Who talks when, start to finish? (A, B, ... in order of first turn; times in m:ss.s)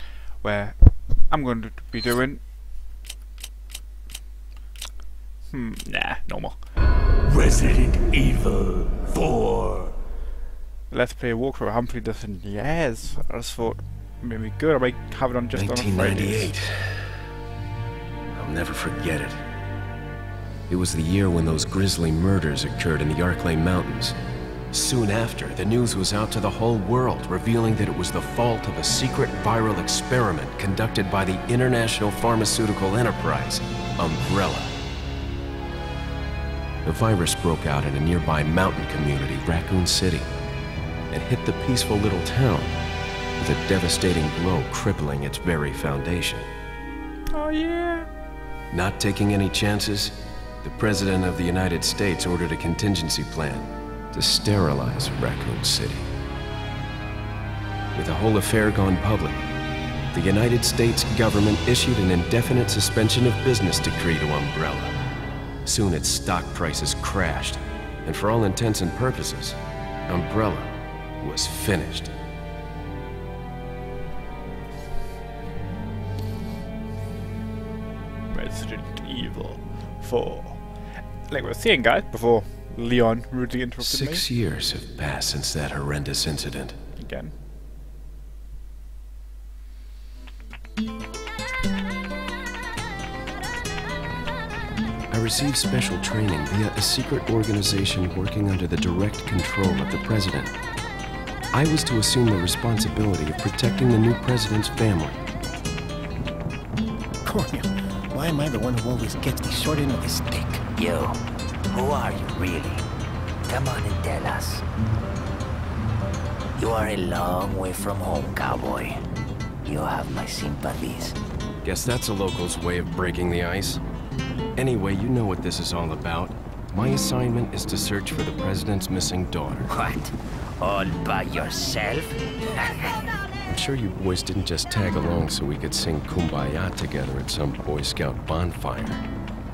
0:00.4-0:02.4 A
0:05.5-0:06.6 A
0:07.3-0:09.9 B
0:10.9-0:16.5 A
0:15.5-0:17.3 C
0:18.4-0:19.4 C
0:20.7-0:24.2 C
0:24.7-0:34.8 C
0:36.8-0:40.3 C
0:41.1-0:42.8 C
0:43.4-0:46.5 C
0:47.3-0:48.1 A
0:48.7-0:56.1 C
0:57.9-0:59.4 C
1:00.1-1:05.0 C
1:05.6-1:12.1 C
1:18.3-1:24.3 A
1:23.8-1:26.8 C
1:27.0-1:27.4 A
1:35.1-1:40.5 C
1:41.5-1:45.2 C
1:47.2-1:50.6 D
1:50.7-1:52.8 E
1:53.5-1:54.6 E
1:56.6-1:59.0 E
1:59.6-2:01.2 E
2:01.6-2:03.8 C
2:04.6-2:09.7 C
2:09.7-2:13.0 E
2:13.4-2:19.0 C